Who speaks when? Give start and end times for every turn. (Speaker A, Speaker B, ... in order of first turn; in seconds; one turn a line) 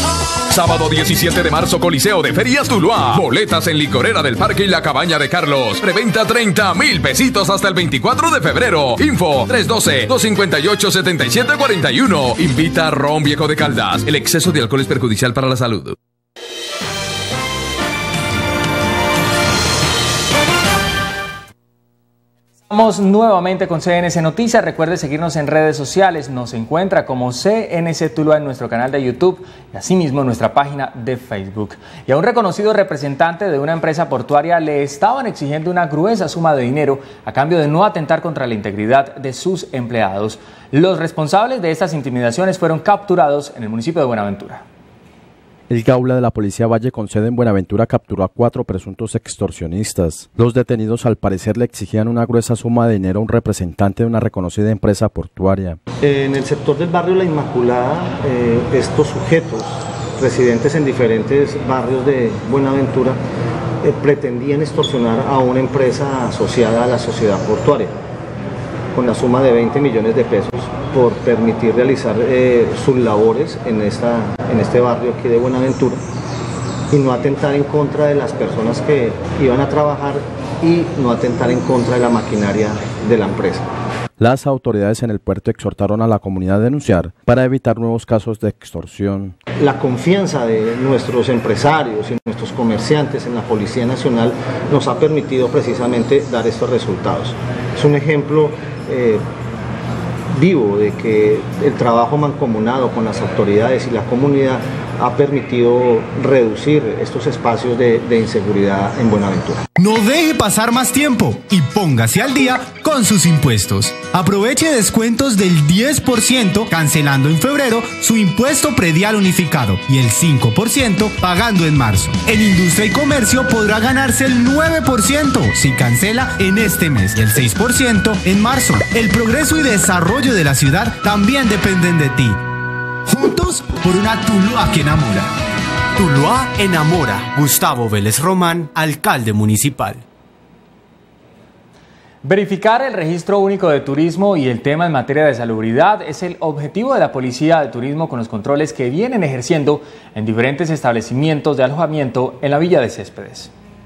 Speaker A: 0.5-15.9
Speaker B: 22.7-44.6
Speaker C: 45.7-55.8
Speaker D: 56.0-63.2
Speaker D: 63.8-67.9
Speaker D: 68.9-76.0
Speaker D: 76.9-83.7
Speaker C: 84.2-89.4
Speaker D: 89.6-99.2
Speaker D: 100.3-109.6
Speaker E: 109.8-132.4
Speaker E: 133.1-135.3
Speaker E: 136.0-140.0
Speaker B: 142.2-153.5